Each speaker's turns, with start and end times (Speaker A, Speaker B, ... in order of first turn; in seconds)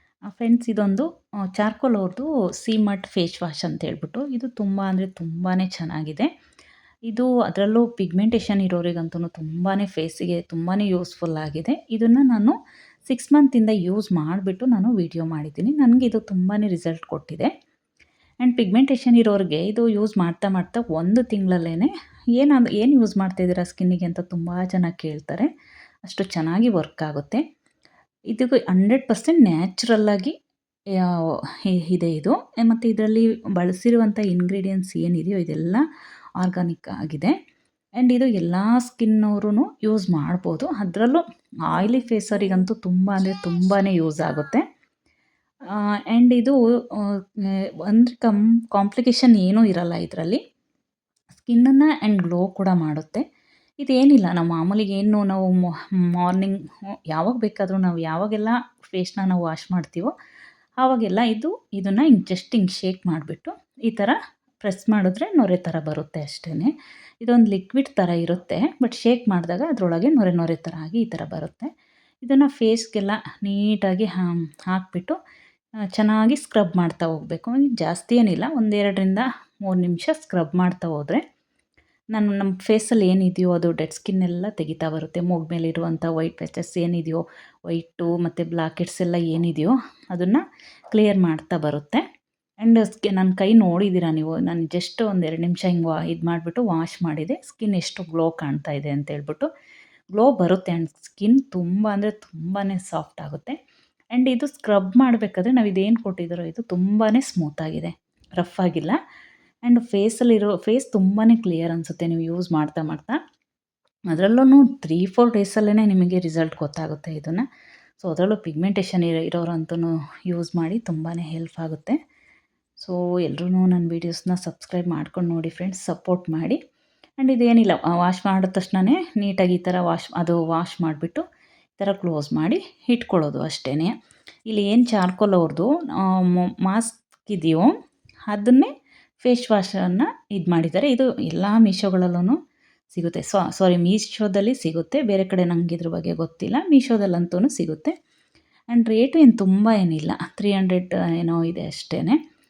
Speaker A: 0.3-6.3, 7.1-12.6, 13.1-17.5, 18.4-25.5, 26.1-27.4, 28.3-30.3, 31.0-35.8, 36.4-37.3, 38.0-44.6, 45.7-50.4, 51.4-53.2, 53.8-56.6, 57.1-60.1, 60.8-66.7, 67.2-71.7, 72.2-75.2, 75.9-81.2, 82.1-92.0, 92.6-99.5, 100.1-103.6, 104.1-109.0, 109.7-113.2, 114.1-117.4, 118.0-122.0, 122.8-126.6, 127.2-131.2, 131.8-133.9, 134.5-137.7, 138.3-138.7, 139.2-142.4, 142.9-147.9, 148.7-152.2